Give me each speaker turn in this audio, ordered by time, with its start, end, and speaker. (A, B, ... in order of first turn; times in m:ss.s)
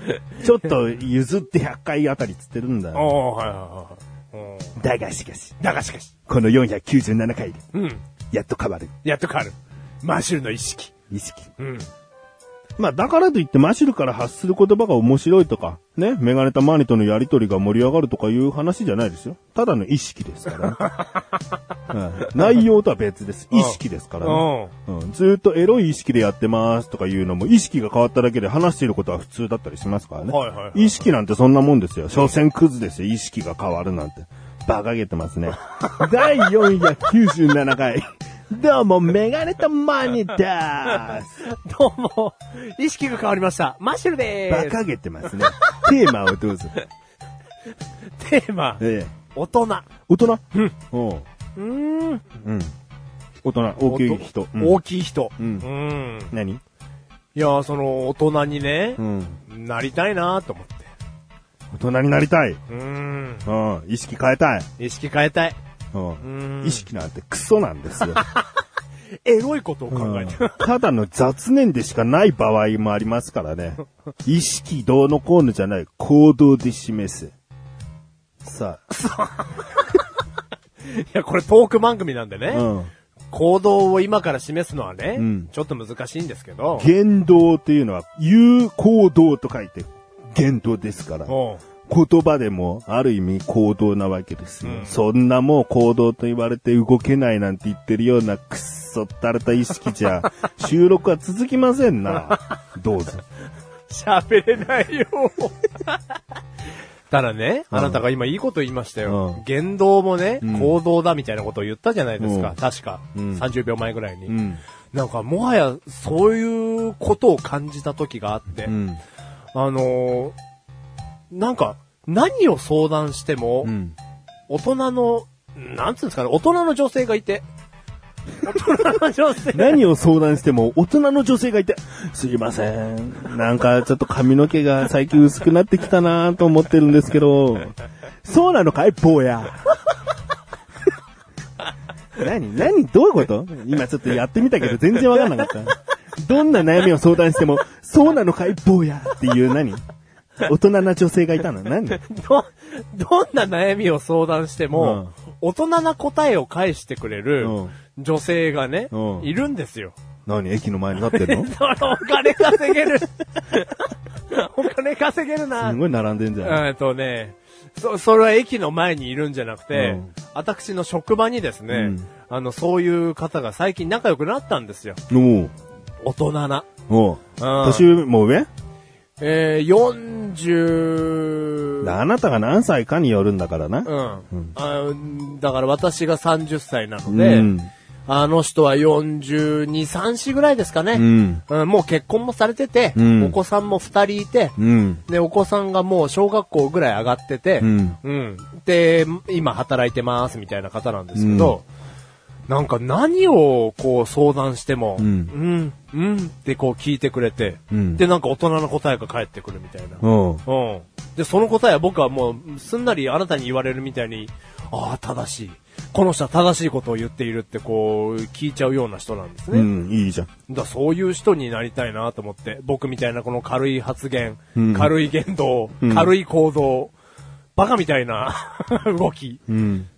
0:00.4-0:03.1 A
0:02.9-0:04.7 B
0:04.8-0:05.6 A
0:05.6-0:06.1 B
0:06.3-0:07.6 A
0:07.7-0:08.0 B
0:08.3-0:08.9 A
0:09.0-0:10.9 B
0:11.1-0:11.5 A
0:11.6-0:11.9 B
0:12.8-0:20.8 A
0:20.7-0:21.4 B
0:21.9-0:41.3 A
0:23.5-0:24.7 B
0:30.2-0:31.1 B
0:41.0-0:45.8 B
0:44.5-0:46.8 A
0:48.2-0:48.8 B
0:48.8-0:49.1 A
0:49.3-0:49.9 B
0:50.1-0:51.2 A
0:51.6-0:52.2 B
0:52.4-0:52.7 A
0:53.4-0:54.8 A
0:53.9-0:56.3 B
0:55.4-0:55.7 A
0:56.3-0:56.6 A
0:57.3-1:00.9 B
0:59.0-0:59.4 A
1:01.7-1:02.6 A
1:02.7-1:03.5 B
1:03.4-1:04.7 A
1:04.8-1:05.6 B
1:05.9-1:08.2 A
1:06.2-1:06.9 B
1:08.0-1:08.4 B
1:09.2-1:10.6 B
1:09.9-1:17.3 A
1:18.4-1:18.8 A
1:19.0-1:20.0 B
1:20.8-1:22.7 B
1:22.5-1:22.9 A
1:23.3-1:26.9 B
1:25.2-1:25.5 A
1:26.8-1:31.3 A
1:31.3-1:31.6 B
1:31.8-1:43.2 A
1:34.6-1:35.0 B
1:43.9-1:46.0 B
1:47.1-1:54.4 B
1:47.7-1:48.0 A
1:49.0-1:49.4 A
1:50.4-1:50.8 A
1:52.2-1:52.6 A
1:53.1-1:53.4 A
1:54.3-1:54.6 A
1:54.9-1:58.7 B
1:58.6-1:59.0 A
1:59.5-2:00.3 B
2:01.3-2:03.7 B
2:03.6-2:04.0 A
2:04.5-2:07.5 B
2:08.4-2:09.8 B
2:09.5-2:19.7 A
2:22.1-2:29.8 A
2:25.1-2:25.4 B
2:30.4-2:32.0 A
2:31.9-2:40.0 B
2:34.7-2:35.1 A
2:37.4-2:37.7 A
2:38.9-2:39.3 A
2:40.2-2:41.5 A
2:41.0-2:45.8 B
2:45.6-2:46.6 A
2:46.4-2:55.0 B
2:49.7-2:50.1 A
2:51.7-2:52.1 A
2:55.1-2:55.5 A
2:56.0-2:56.7 B
2:56.9-2:58.5 A
2:57.4-2:57.9 B
2:59.2-3:01.9 B
3:01.8-3:04.5 A
3:03.8-3:07.5 B
3:07.1-3:07.7 A
3:08.1-3:21.6 B
3:10.9-3:11.4 A
3:13.0-3:13.4 A
3:14.6-3:15.0 A
3:17.6-3:18.0 A
3:21.2-3:21.6 A
3:22.5-3:39.7 B
3:25.0-3:25.3 A
3:27.7-3:28.0 A
3:30.0-3:30.4 A
3:39.5-3:40.3 A
3:40.5-3:46.9 B
3:44.6-3:44.9 A
3:45.8-3:46.1 A
3:47.6-3:49.4 B
3:49.5-3:49.9 A